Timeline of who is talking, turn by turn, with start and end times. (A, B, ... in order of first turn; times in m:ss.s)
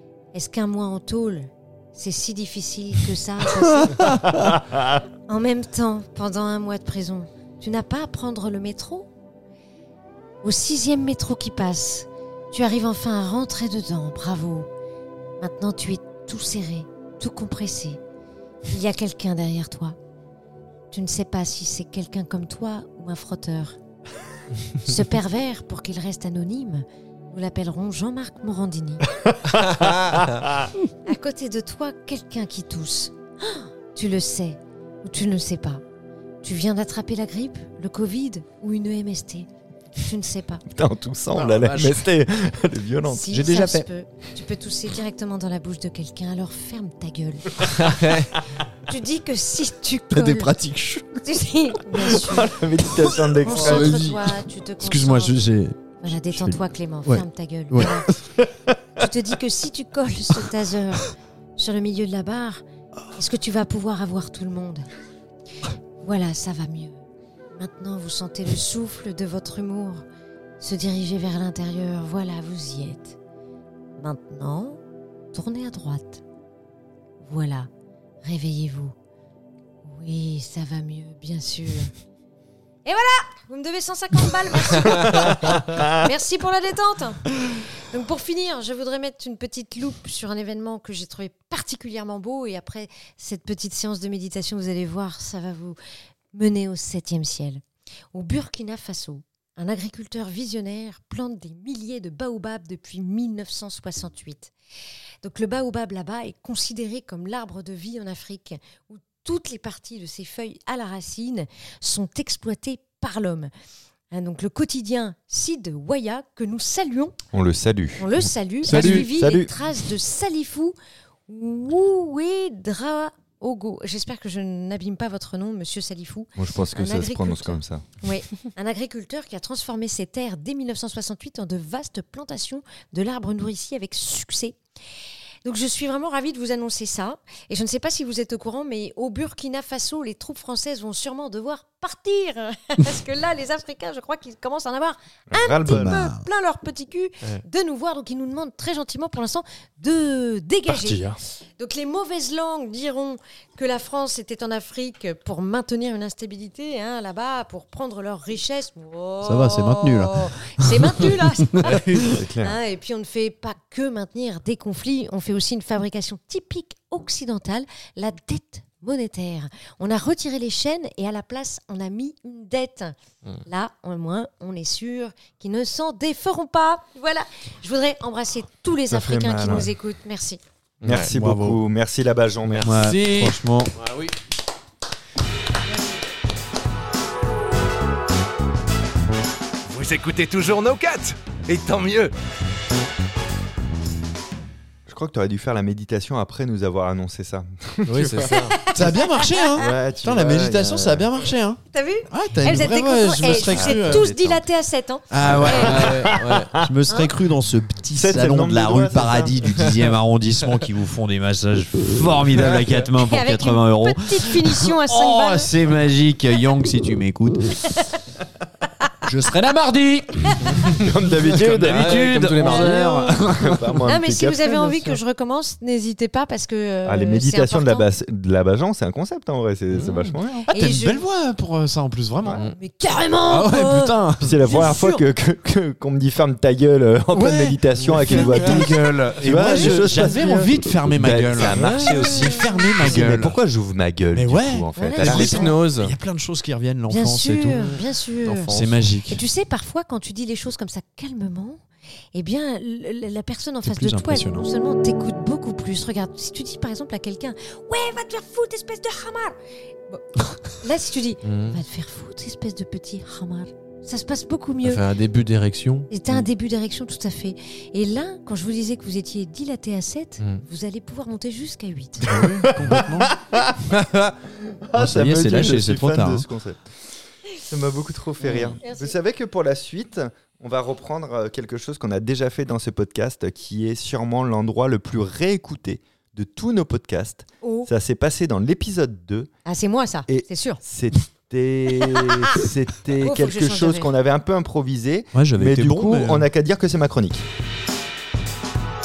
0:00.3-0:04.2 A
0:03.8-0:04.6 B
0:05.3-0:09.1 A
0:10.4-0:14.7 A
0:15.4-0:18.0 A
0:18.7-0:20.0 A
0:20.9-0:23.8 A
0:24.8-0:29.1 A
0:29.3-0:30.7 C
0:31.0-0:35.8 A
0:36.4-0:40.6 A
0:40.7-0:43.4 C
0:41.3-0:42.0 B
0:43.1-0:48.1 A
0:43.3-0:43.9 B
0:47.8-0:48.3 D
0:48.9-0:50.6 A
0:50.1-0:51.2 B
0:51.2-0:52.6 A
0:52.1-0:54.1 C
0:53.0-0:58.2 B
0:53.4-0:58.1 A
0:58.4-0:58.7 C
0:59.0-1:02.6 A
1:03.2-1:04.9 A
1:06.0-1:07.0 A
1:07.6-1:10.0 A
1:10.6-1:13.2 A
1:14.0-1:14.8 A
1:15.3-1:16.2 A
1:17.2-1:17.7 A
1:18.2-1:19.0 A
1:19.8-1:21.9 A
1:22.8-1:35.8 A
1:25.0-1:26.0 C
1:36.3-1:37.6 A
1:38.1-1:44.5 A
1:45.2-1:53.5 A
1:54.1-1:57.2 A
1:57.3-1:59.5 C
1:58.0-2:00.8 A
1:58.6-1:59.1 B
2:01.3-2:14.6 A
2:06.4-2:07.8 C
2:15.4-3:00.4 A
2:25.3-2:26.0 C
2:25.7-2:26.2 B
2:30.8-2:31.1 C
2:39.2-2:42.2 B
2:42.0-2:42.6 C
2:58.9-2:59.7 C
3:00.8-3:01.1 D
3:00.8-3:03.0 C
3:01.1-3:01.6 B
3:02.4-3:04.1 D
3:02.6-3:03.8 B
3:09.7-3:12.1 E
3:14.9-3:18.4 C
3:17.9-3:18.6 D
3:18.3-3:19.6 A
3:18.7-3:24.1 B
3:19.6-3:21.1 C
3:21.7-3:25.9 A
3:23.5-3:24.5 C
3:25.1-3:37.7 B
3:25.2-3:26.6 C
3:25.4-3:26.6 D
3:27.9-3:29.5 C
3:33.0-3:35.5 A
3:39.0-3:43.8 B
3:40.6-3:45.0 C
3:41.5-3:43.2 D
3:43.9-3:47.9 A
3:46.8-3:50.5 C
3:49.7-3:50.1 D
3:50.5-3:51.0 A
3:50.5-3:52.4 B
3:52.4-3:55.0 A
3:53.2-3:54.5 B
3:54.2-4:05.5 C
3:57.1-4:03.4 B
3:58.0-3:58.4 D
3:59.5-3:59.8 A
4:01.4-4:02.1 D
4:02.0-4:02.6 A
4:04.1-4:07.6 B
4:04.8-4:05.5 A
4:05.0-4:06.0 D
4:06.9-4:08.5 A
4:07.6-4:08.9 D
4:08.5-4:09.2 B
4:09.1-4:11.6 A
4:12.1-4:19.4 A
4:13.6-4:14.5 B
4:19.9-4:24.8 A
4:21.2-4:21.6 D
4:24.6-4:26.2 D
4:25.9-4:32.2 A
4:32.0-4:33.1 B
4:32.1-4:33.7 C
4:34.4-4:36.7 C
4:34.8-4:36.2 B
4:37.4-4:49.3 C
4:38.2-4:38.6 D
4:38.6-4:39.0 A
4:47.4-4:47.7 A
4:49.4-4:50.6 A
4:50.1-4:57.3 C
4:51.8-4:52.4 A
4:53.0-4:53.9 A
4:55.1-4:56.3 B